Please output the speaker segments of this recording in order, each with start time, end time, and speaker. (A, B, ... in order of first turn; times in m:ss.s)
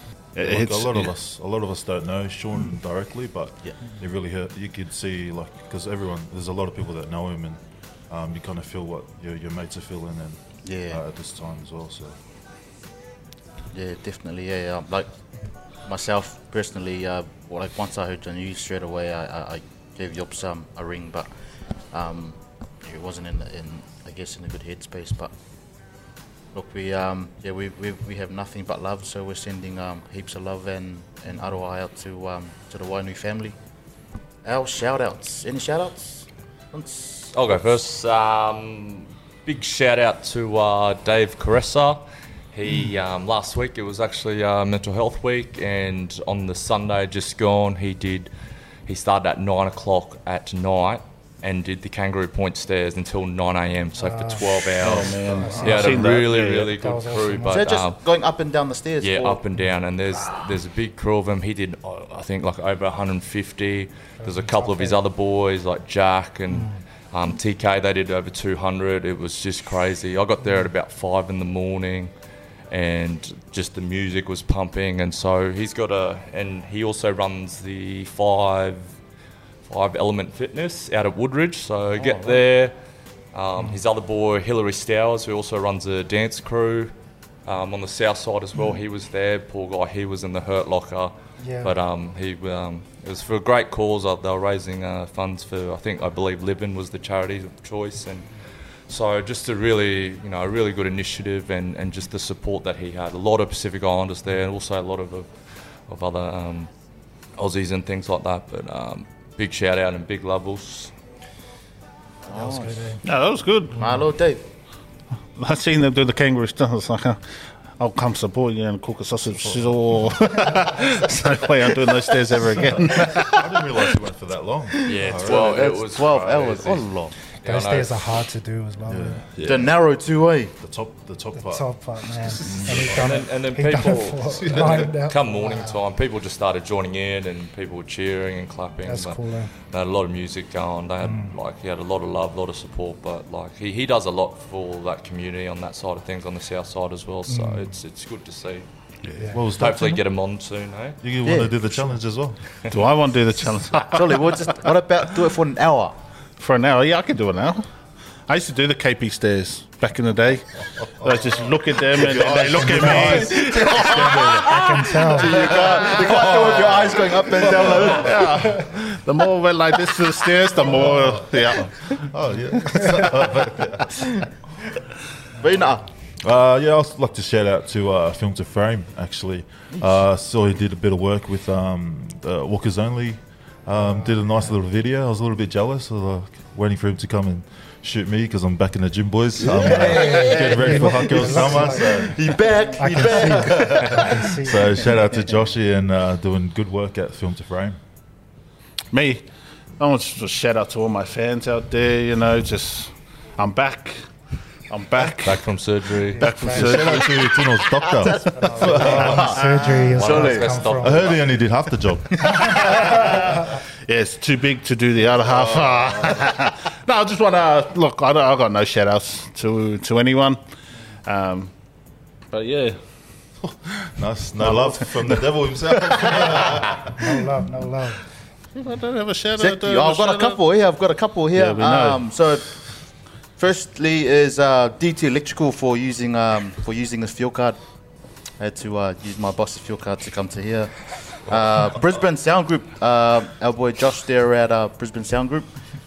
0:00.4-0:01.1 A
0:00.4-0:12.2 B
0:10.6-0:11.0 C
0:13.7-0:15.1 C
0:15.8-0:21.3 C
0:21.9-0:25.3 C
0:26.5-0:33.6 C
0:34.4-0:37.6 C
0:37.3-0:48.3 D
0:48.9-0:58.0 D
0:54.0-0:54.5 E
0:54.8-0:56.8 A
0:55.0-0:56.0 E
0:56.8-0:57.6 E
0:57.5-0:59.4 C
0:59.0-1:12.1 D
1:04.2-1:05.0 E
1:06.5-1:06.8 E
1:12.7-1:18.9 D
1:19.7-1:22.8 D
1:22.0-1:22.4 C
1:23.3-1:26.9 D
1:27.5-1:38.3 D
1:31.4-1:31.7 E
1:38.9-1:45.3 D
1:45.9-1:46.7 D
1:47.4-1:50.9 D
1:52.3-1:53.0 C
1:52.3-1:53.0 E
1:53.0-1:53.9 A
1:53.8-1:54.4 C
1:55.4-1:57.2 A
1:57.8-2:03.5 A
2:02.7-2:05.5 B
2:04.7-2:07.1 C
2:04.8-2:06.8 D
2:07.4-2:08.1 D
2:07.5-2:09.2 E
2:08.9-2:09.2 B
2:09.4-2:09.7 A
2:09.4-2:10.5 C
2:10.6-2:11.7 B
2:11.4-2:15.8 E
2:12.2-2:13.2 B
2:12.7-2:28.6 D
2:14.3-2:14.9 B
2:18.8-2:19.5 E
2:21.0-2:21.3 E
2:27.3-2:27.6 E
2:29.0-2:29.4 A
2:29.2-2:29.4 E
2:29.3-2:30.0 B
2:29.6-2:31.0 D
2:31.0-2:32.4 B
2:31.2-2:31.9 C
2:32.7-2:34.3 A
2:33.9-2:36.0 C
2:36.4-2:37.7 A
2:38.3-2:46.9 A
2:41.9-2:44.6 B
2:42.6-2:43.2 E
2:42.8-2:44.5 C
2:44.4-2:45.5 E
2:45.0-2:48.3 C
2:45.5-2:48.4 B
2:47.7-2:52.0 A
2:50.8-2:54.3 B
2:55.4-2:55.9 C
2:56.2-3:12.2 B
3:03.8-3:04.2 E
3:09.5-3:14.4 C
3:09.6-3:12.2 E
3:12.7-3:14.9 E
3:13.4-3:17.8 B
3:18.9-3:19.2 A
3:19.8-3:24.0 A
3:24.7-3:25.5 A
3:25.2-3:26.3 D
3:26.2-3:26.8 E
3:26.2-3:27.3 A
3:26.5-3:29.4 B
3:27.8-3:30.6 C
3:28.3-3:31.1 E
3:29.9-3:31.3 D
3:30.8-3:32.7 B
3:32.5-3:33.1 E
3:32.6-3:40.4 A
3:35.2-3:36.3 B
3:41.1-3:41.5 A
3:42.3-3:42.8 A
3:43.4-3:47.0 B
3:44.4-3:45.2 A
3:47.0-3:48.0 E
3:48.6-3:50.4 A
3:49.4-3:52.4 C
3:51.3-3:52.0 A
3:53.4-3:57.6 C
3:58.4-4:05.5 C